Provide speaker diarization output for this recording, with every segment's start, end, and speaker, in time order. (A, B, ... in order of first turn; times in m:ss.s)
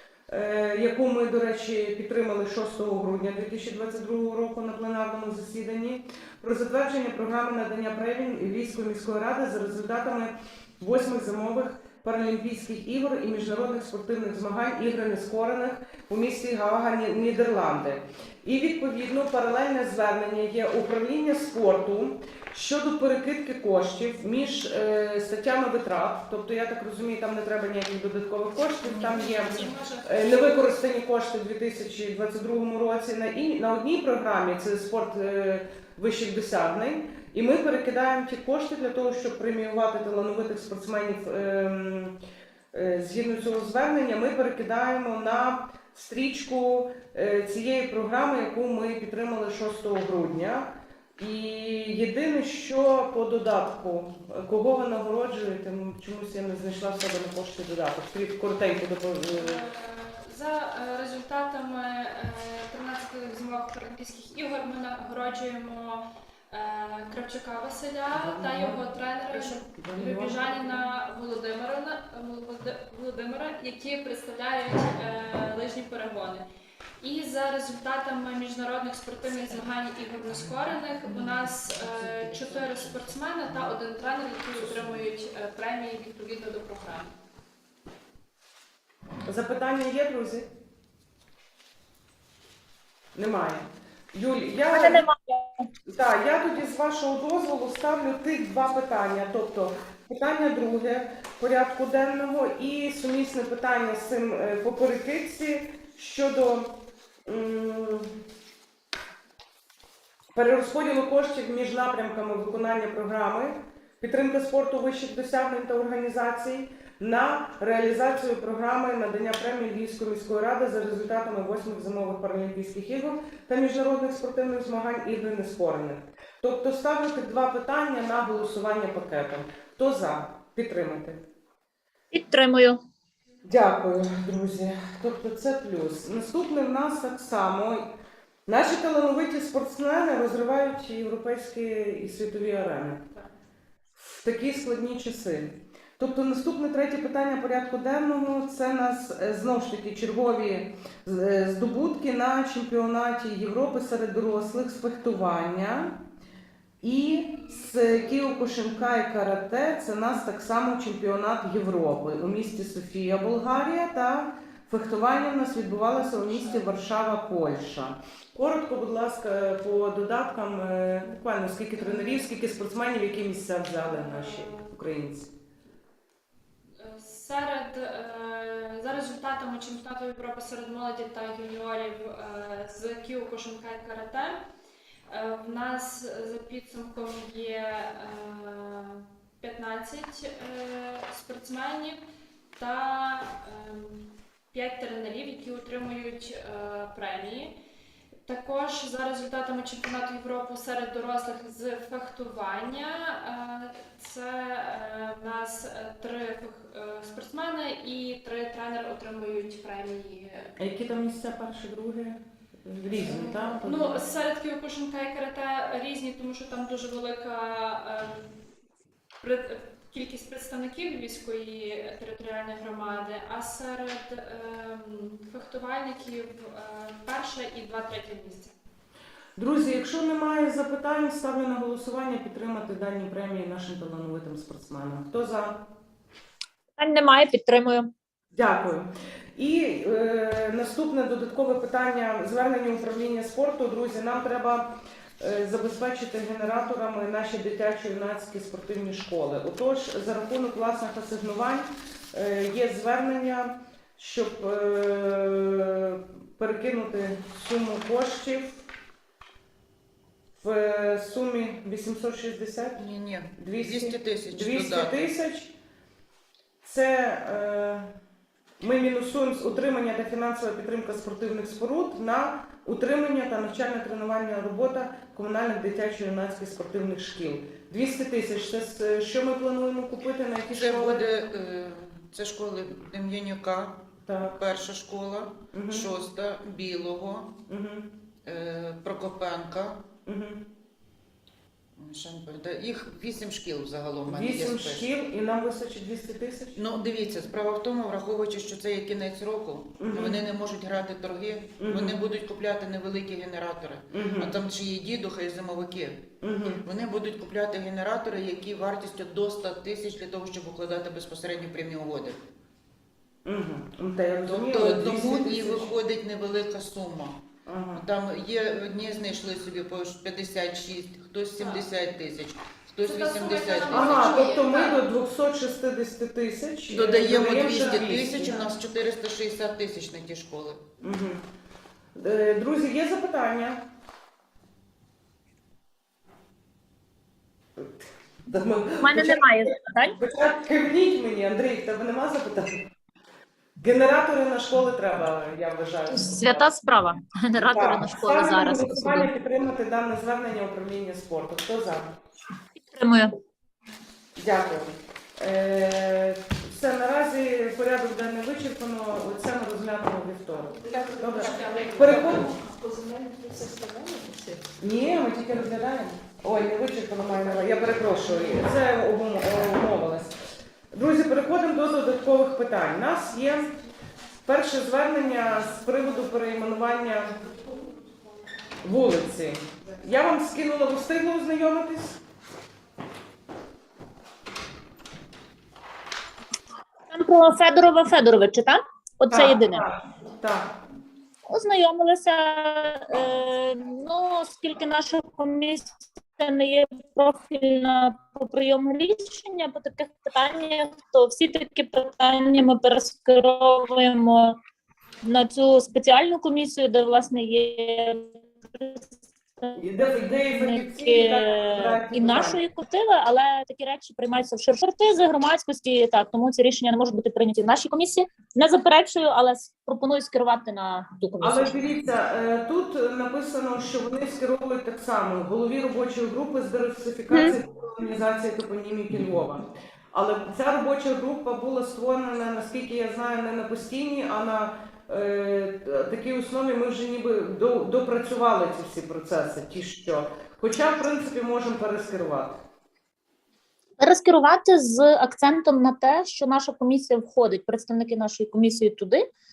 0:00.3-0:42.2 A
0:28.8-0:30.4 B
0:42.7-0:59.6 A
0:59.4-1:16.4 B
1:08.1-1:10.8 A
1:17.0-1:27.1 B
1:29.3-1:30.5 A
1:33.2-1:35.1 A
1:34.7-1:35.7 C
1:35.9-1:46.8 A
1:47.3-1:48.1 A
1:50.4-2:11.2 A
2:12.1-2:12.8 C
2:13.4-2:17.9 A
2:18.5-2:23.1 A
2:24.0-2:36.0 A
2:36.8-2:55.3 A
2:37.5-2:38.0 B
2:46.1-2:46.6 B
2:51.8-2:52.2 B
2:53.8-2:54.7 B
2:56.8-3:04.4 B
3:05.1-3:12.0 B
3:12.6-3:17.5 B
3:18.2-3:30.5 B
3:30.6-3:34.0 A
3:33.0-3:38.3 B
3:39.2-3:48.5 B
3:49.4-3:55.6 A
3:56.8-3:57.9 C
3:58.4-4:18.6 A
4:20.4-4:22.8 A
4:22.8-4:25.1 D
4:23.4-4:25.5 A
4:26.6-4:27.9 A
4:28.6-4:41.1 A
4:40.5-4:47.3 D
4:44.1-4:44.4 A
4:45.5-4:45.9 A
4:47.5-4:47.9 A
4:48.2-4:49.8 D
4:50.1-4:50.4 A
4:51.8-4:54.9 D
4:54.1-4:56.6 A
4:56.6-5:06.1 D
4:59.8-5:00.2 A
5:01.6-5:02.0 A
5:03.9-5:04.3 A
5:06.2-5:06.6 A
5:06.6-5:12.2 D
5:13.2-5:15.7 A
5:14.2-5:17.2 D
5:17.5-5:17.8 A
5:17.8-5:24.4 D
5:21.4-5:21.6 B
5:22.8-5:24.8 B
5:23.7-5:28.3 A
5:26.7-5:30.7 D
5:27.6-5:28.5 B
5:30.8-5:31.2 A
5:32.0-5:33.6 A
5:37.6-5:39.3 A
5:38.8-5:40.0 C
5:40.0-5:42.7 A
5:43.6-5:46.5 A
5:45.9-5:49.1 C
5:47.4-5:51.9 A
5:52.6-5:53.1 C
5:54.2-6:02.3 A
6:00.6-6:04.4 B
6:04.6-6:10.2 A
6:10.7-6:13.5 A
6:14.2-6:17.2 A
6:18.6-6:22.0 A
6:26.9-6:29.7 C
6:29.1-6:30.5 A
6:31.3-6:44.4 C
6:45.0-7:01.6 C
6:49.5-6:52.4 A
7:01.2-7:22.4 A
7:07.1-7:07.4 C
7:23.8-7:29.1 C